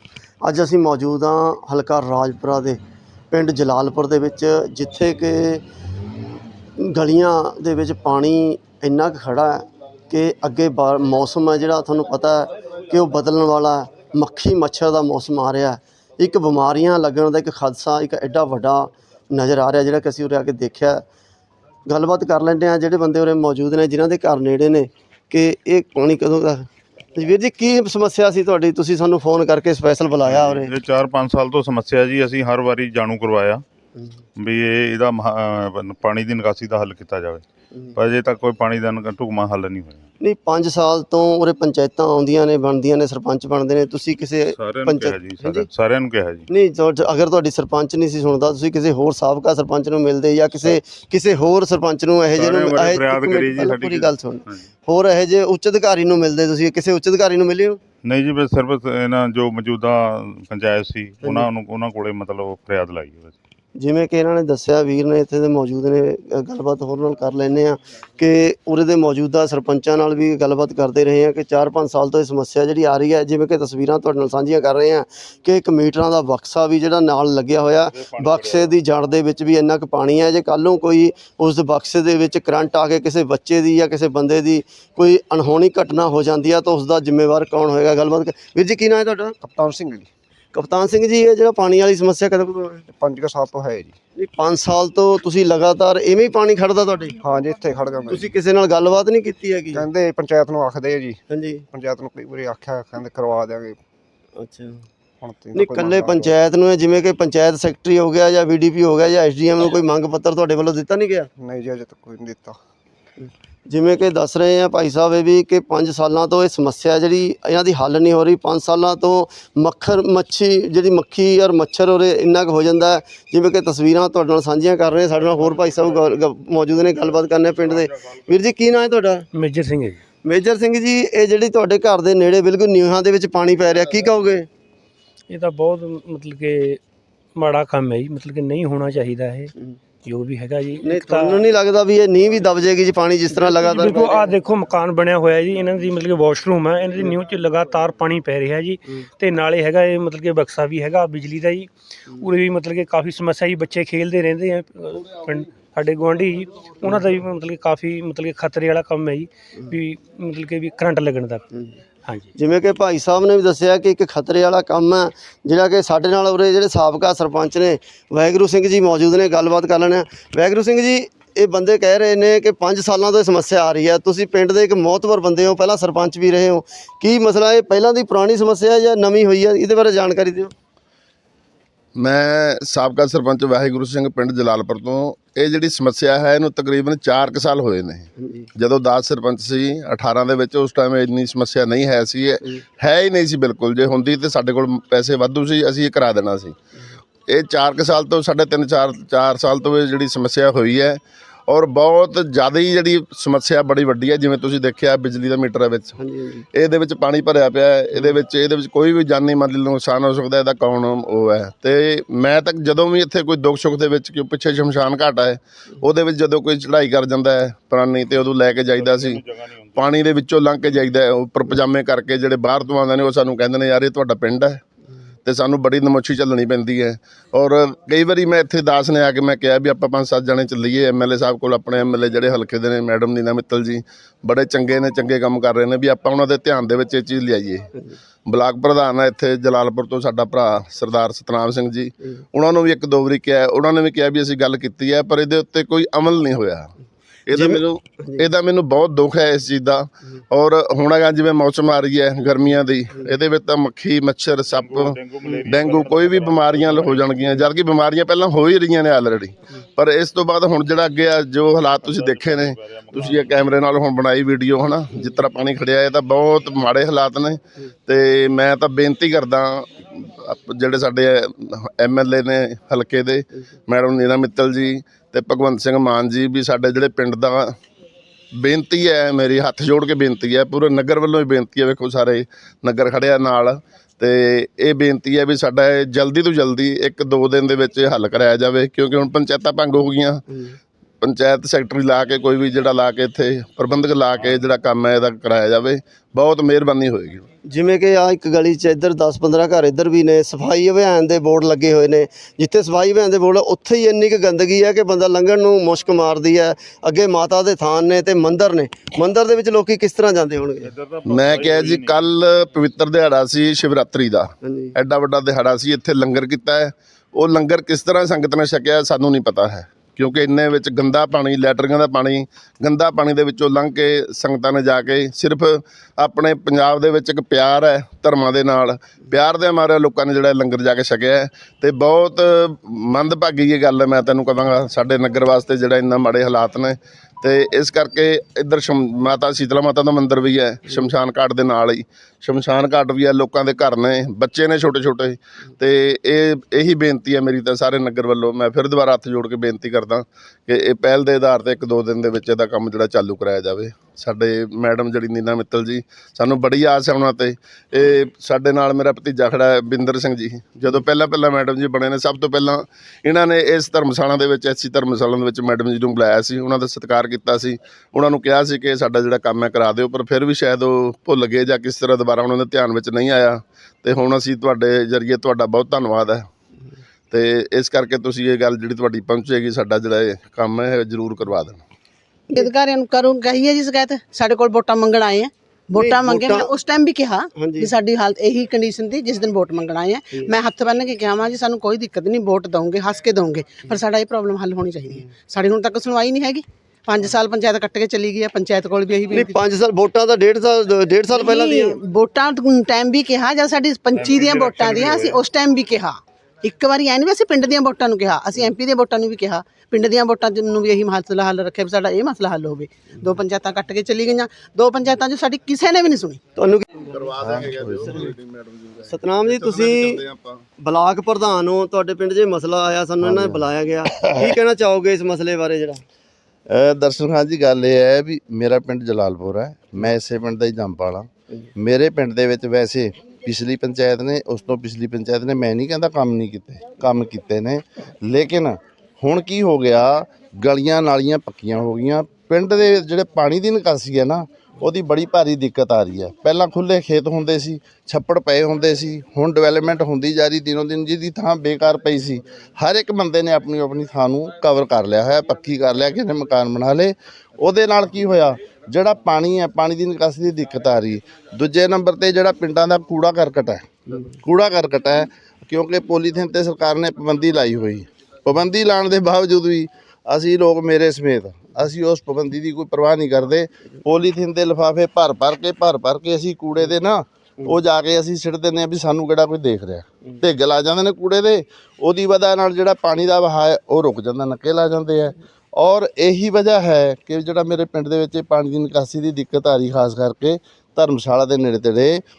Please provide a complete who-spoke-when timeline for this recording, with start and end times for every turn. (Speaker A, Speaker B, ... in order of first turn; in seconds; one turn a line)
Speaker A: 0.4-2.8
Speaker A: 3.3-5.6
Speaker A: 6.8-21.0
Speaker A: 21.9-30.7
Speaker B: 30.2-33.6
Speaker B: 34.4-40.1
Speaker A: 40.2-45.7
Speaker B: 44.5-46.5
Speaker A: 46.5-57.8
Speaker B: 52.3-54.6
Speaker B: 58.0-63.4
Speaker A: 61.2-61.5
Speaker A: 63.8-89.3
Speaker B: 78.1-78.7
Speaker C: 89.4-90.1
Speaker A: 90.5-92.8
Speaker C: 92.9-93.9
Speaker A: 94.2-97.2
Speaker C: 97.2-98.2
Speaker A: 98.1-99.8
Speaker C: 99.7-101.2
Speaker A: 101.3-101.6
Speaker C: 101.7-103.8
Speaker A: 104.4-104.8
Speaker C: 105.2-106.3
Speaker A: 105.5-111.3
Speaker C: 111.4-112.5
Speaker A: 113.2-129.2
Speaker D: 129.3-130.0
Speaker A: 130.2-134.5
Speaker D: 135.3-136.8
Speaker D: 137.3-139.5
Speaker D: 140.0-141.4
Speaker A: 140.8-144.3
Speaker D: 143.3-161.4
Speaker D: 162.0-162.3
Speaker A: 162.3-180.5
Speaker E: 181.9-196.5
Speaker A: 188.2-188.5
Speaker E: 197.3-205.9
Speaker A: 206.0-206.4
Speaker E: 206.5-219.2
Speaker B: 218.7-219.9
Speaker E: 219.8-224.6
Speaker E: 225.2-237.7
Speaker E: 238.2-246.7
Speaker E: 247.3-277.5
Speaker A: 247.3-248.2
Speaker B: 254.5-257.4
Speaker B: 261.8-263.8
Speaker E: 278.4-290.2
Speaker E: 291.0-297.2
Speaker A: 297.5-310.7
Speaker B: 310.6-312.0
Speaker E: 311.1-376.2
Speaker A: 314.4-314.7
Speaker E: 377.1-381.6
Speaker F: 382.3-399.3
Speaker A: 385.8-386.5
Speaker A: 387.4-387.7
Speaker A: 399.1-401.8
Speaker F: 401.1-416.2
Speaker B: 403.9-405.1
Speaker A: 416.4-416.9
Speaker E: 416.9-420.4
Speaker G: 417.2-418.0
Speaker A: 418.9-420.0
Speaker A: 420.6-425.8
Speaker G: 426.5-492.0